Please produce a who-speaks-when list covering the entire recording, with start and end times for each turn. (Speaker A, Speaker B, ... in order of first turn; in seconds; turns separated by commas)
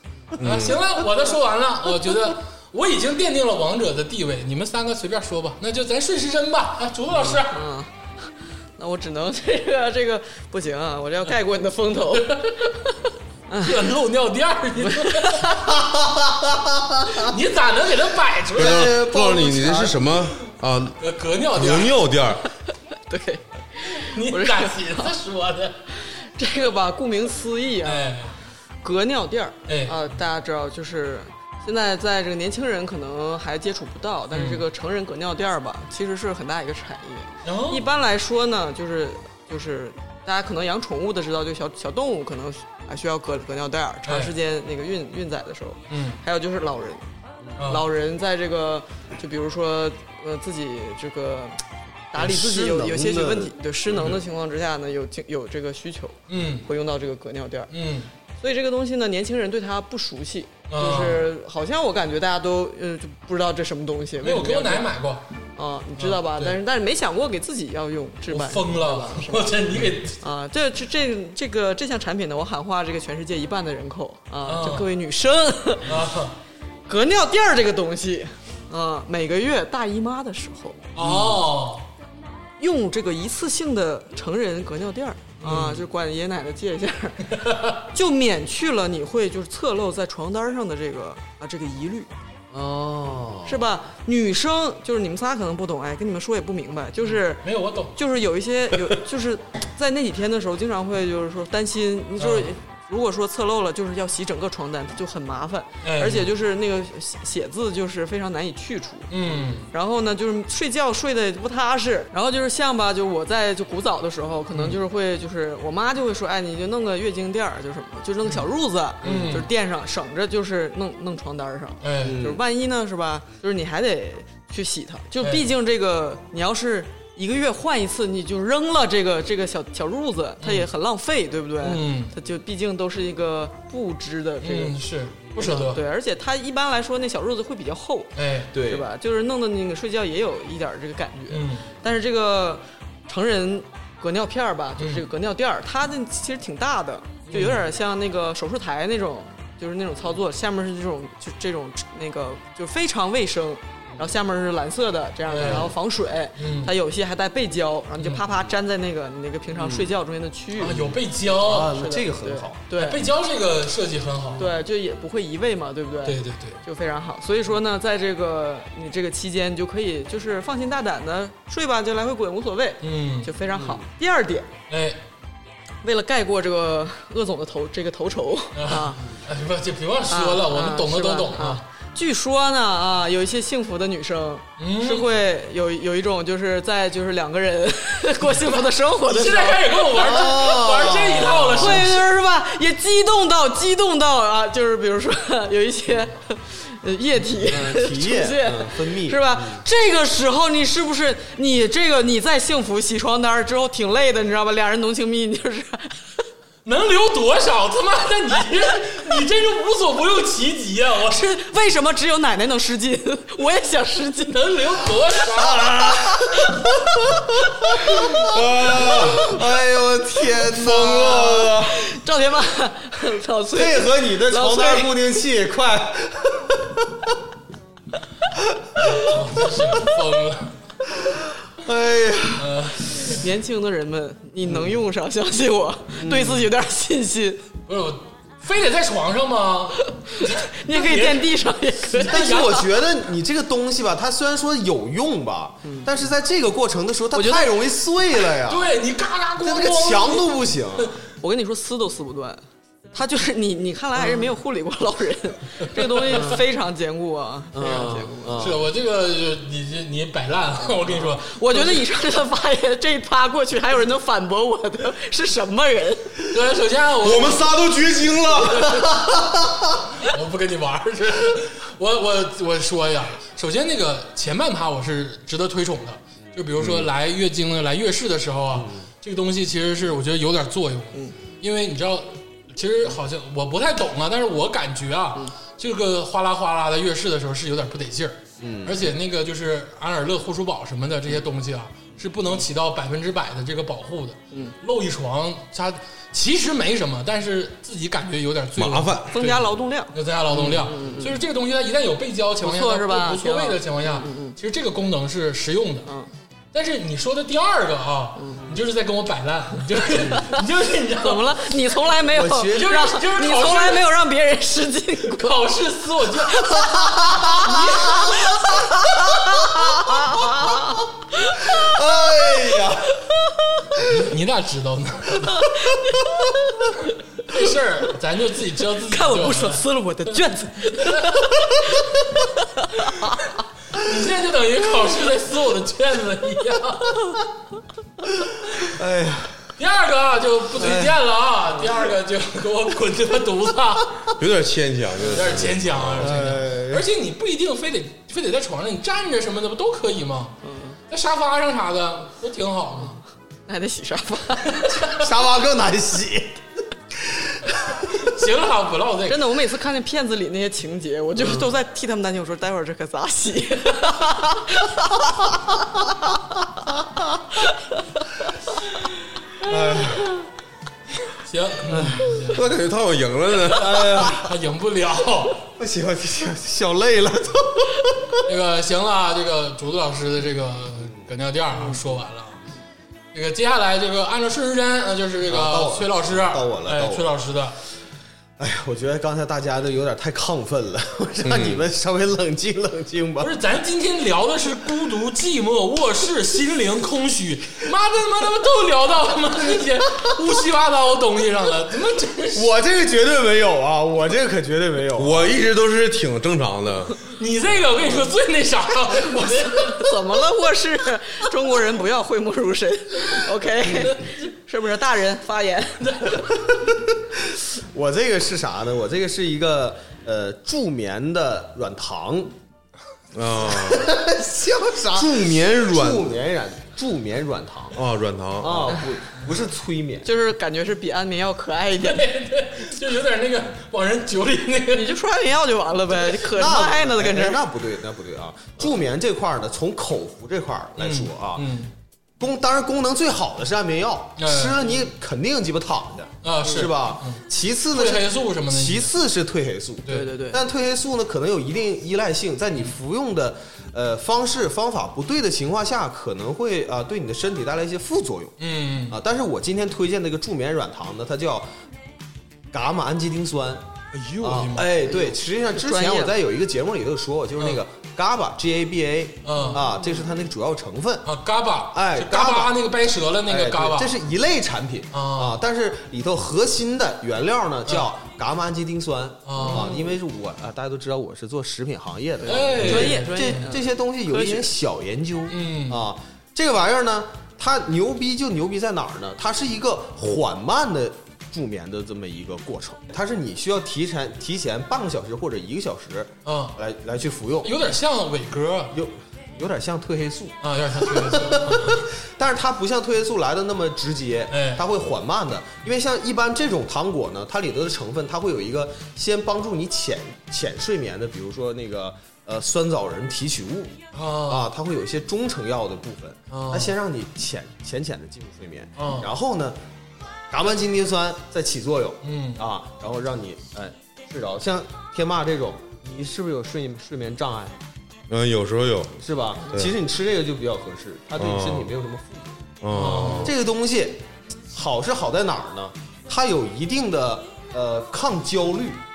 Speaker A: 0.4-0.8, Speaker B: 0.4-7.6, Speaker C: 7.2-12.7, Speaker B: 12.1-12.7, Speaker C: 13.5-13.9, Speaker B: 13.6-15.6, Speaker C: 14.9-15.7, Speaker D: 15.7-17.3, Speaker B: 17.1-19.0, Speaker A: 18.5-21.0, Speaker D: 18.6-20.1, Speaker B: 21.0-22.0, Speaker A: 21.5-22.4, Speaker C: 23.1-25.1, Speaker B: 24.0-25.9, Speaker C: 26.2-28.2, Speaker B: 27.8-28.3, Speaker C: 28.8-47.0, Speaker B: 29.7-30.1, Speaker B: 34.3-34.6, Speaker B: 37.5-37.9, Speaker B: 44.1-44.3, Speaker B: 45.9-46.2, Speaker B: 47.6-47.9, Speaker C: 47.6-51.6, Speaker C: 52.1-57.7, Speaker D: 52.1-53.5, Speaker B: 53.9-54.2, Speaker B: 56.3-56.7, Speaker B: 57.7-58.1, Speaker C: 58.4-64.9, Speaker B: 60.7-61.3, Speaker B: 64.2-65.2, Speaker C: 65.6-76.0, Speaker B: 66.0-66.6, Speaker B: 68.3-70.2, Speaker B: 74.5-74.9, Speaker B: 75.9-76.4, Speaker C: 76.9-81.2, Speaker B: 81.0-81.9, Speaker C: 82.6-92.1, Speaker D: 85.4-85.9, Speaker B: 87.4-87.7, Speaker D: 92.5-93.6, Speaker C: 93.5-134.8, Speaker B: 97.1-98.0, Speaker B: 102.2-102.5, Speaker B: 105.8-106.3, Speaker B: 109.1-109.7, Speaker B: 114.5-114.8, Speaker D: 119.0-119.4, Speaker B: 119.0-119.5, Speaker B: 121.8-122.2, Speaker D: 122.0-122.4, Speaker B: 125.2-125.5, Speaker B: 130.4-130.7, Speaker B: 131.6-132.1, Speaker B: 134.4-135.8, Speaker C: 135.4-138.1, Speaker B: 138.2-138.5, Speaker D: 138.5-138.9, Speaker C: 138.6-160.9, Speaker B: 141.3-141.7, Speaker B: 144.8-145.0, Speaker B: 147.3-147.6, Speaker B: 155.3-155.7, Speaker D: 155.4-155.7, Speaker B: 156.4-156.7, Speaker D: 159.6-159.9, Speaker B: 160.6-161.8, Speaker D: 160.7-162.6, Speaker C: 161.6-163.1, Speaker B: 162.8-164.5, Speaker C: 164.4-174.5, Speaker B: 166.1-166.6, Speaker B: 172.8-173.3, Speaker D: 173.5-173.8, Speaker B: 174.7-175.0, Speaker C: 175.8-179.1, Speaker B: 178.6-181.6, Speaker C: 180.1-190.3, Speaker B: 184.6-185.1, Speaker B: 189.1-192.0, Speaker D: 189.9-192.0, Speaker C: 191.6-206.1, Speaker D: 197.4-199.6, Speaker B: 206.7-211.3, Speaker C: 211.1-214.6, Speaker B: 214.3-216.1, Speaker D: 215.4-221.8, Speaker C: 216.1-216.6, Speaker A: 218.2-219.2, Speaker B: 218.8-219.1, Speaker C: 220.5-225.0, Speaker D: 223.5-226.8, Speaker B: 228.9-230.6, Speaker D: 231.6-232.6, Speaker B: 232.4-233.2, Speaker C: 233.1-237.5, Speaker D: 235.9-236.4, Speaker B: 237.7-242.7, Speaker C: 240.1-242.6, Speaker D: 242.1-248.7, Speaker C: 245.6-245.9, Speaker C: 247.1-247.5, Speaker B: 248.5-250.4, Speaker D: 249.4-251.0, Speaker C: 251.2-258.3, Speaker B: 255.8-256.4, Speaker D: 256.1-256.4, Speaker D: 257.5-258.6, Speaker B: 257.6-261.8, Speaker C: 261.1-266.2, Speaker B: 266.3-267.8, Speaker A: 267.0-268.9, Speaker B: 268.3-268.9, Speaker D: 268.5-269.6, Speaker B: 270.0-305.9, Speaker A: 276.6-276.9, Speaker D: 278.5-278.9, Speaker D: 288.4-288.9, Speaker A: 298.6-299.2, Speaker C: 299.1-301.1, Speaker D: 300.4-301.0, Speaker C: 302.4-304.4, Speaker B: 306.5-311.4, Speaker C: 308.2-308.6, Speaker C: 310.0-310.4, Speaker C: 310.9-321.8, Speaker D: 312.1-312.8, Speaker B: 312.5-313.9, Speaker B: 315.1-316.6, Speaker D: 316.8-318.2, Speaker B: 317.3-318.2, Speaker D: 319.2-320.2, Speaker D: 321.4-323.0, Speaker D: 323.8-324.0, Speaker B: 323.8-325.5, Speaker C: 325.4-326.2, Speaker B: 327.2-329.6, Speaker C: 328.9-331.4, Speaker B: 330.7-331.4, Speaker C: 332.6-333.2, Speaker B: 333.7-337.2, Speaker D: 338.6-339.5, Speaker B: 339.6-344.1, Speaker D: 340.6-341.0, Speaker A: 344.2-346.2, Speaker B: 345.1-350.4, Speaker D: 345.9-346.9, Speaker C: 350.4-350.8, Speaker B: 350.9-353.0, Speaker C: 353.5-354.7, Speaker B: 354.6-354.8, Speaker D: 354.8-356.4, Speaker D: 357.0-357.9, Speaker B: 357.9-359.3, Speaker C: 359.1-365.0, Speaker D: 361.2-361.5, Speaker D: 369.4-370.1, Speaker B: 371.2-372.5, Speaker D: 371.7-372.2, Speaker A: 372.3-374.0, Speaker D: 373.5-374.3, Speaker B: 373.5-375.5, Speaker D: 375.6-378.2, Speaker B: 378.3-382.4, Speaker B: 383.1-387.6, Speaker D: 385.2-387.1, Speaker D: 388.4-393.3, Speaker A: 391.2-391.6, Speaker B: 393.2-402.5, Speaker D: 402.3-405.3, Speaker A: 404.9-407.0, Speaker B: 407.1-410.0, Speaker C: 409.7-416.1, Speaker B: 413.9-414.1, Speaker B: 415.9-416.2, Speaker D: 417.3-422.3, Speaker A: 423.1-423.9, Speaker D: 423.5-427.8, Speaker A: 424.9-426.1, Speaker A: 427.8-428.8, Speaker D: 428.4-430.1, Speaker C: 430.0-432.1, Speaker B: 431.8-434.9, Speaker C: 434.7-437.4, Speaker D: 436.3-441.5, Speaker B: 440.8-441.7, Speaker D: 442.2-458.4, Speaker B: 444.2-444.6, Speaker B: 446.2-448.9, Speaker B: 449.9-450.1, Speaker C: 449.9-450.4, Speaker B: 458.4-459.0, Speaker D: 458.9-461.5, Speaker D: 462.5-463.7, Speaker B: 463.9-464.8, Speaker D: 464.2-471.1, Speaker C: 464.9-466.2, Speaker B: 469.2-469.6, Speaker C: 469.4-469.6, Speaker B: 471.1-474.0, Speaker D: 471.7-472.6, Speaker D: 473.3-497.6, Speaker B: 474.9-475.4, Speaker B: 479.3-479.8, Speaker C: 479.4-479.9, Speaker C: 482.2-484.5, Speaker B: 482.3-483.6, Speaker B: 485.3-485.9, Speaker B: 496.2-496.6, Speaker B: 497.4-498.7, Speaker D: 498.7-519.6, Speaker B: 500.4-501.9, Speaker B: 504.3-504.6, Speaker B: 513.9-514.5, Speaker B: 516.3-516.7, Speaker B: 518.8-519.1, Speaker D: 520.3-527.6, Speaker B: 522.0-522.4, Speaker A: 528.1-529.0, Speaker D: 529.0-532.5, Speaker A: 531.2-531.7, Speaker A: 532.6-533.3, Speaker B: 532.7-533.3, Speaker D: 533.1-538.8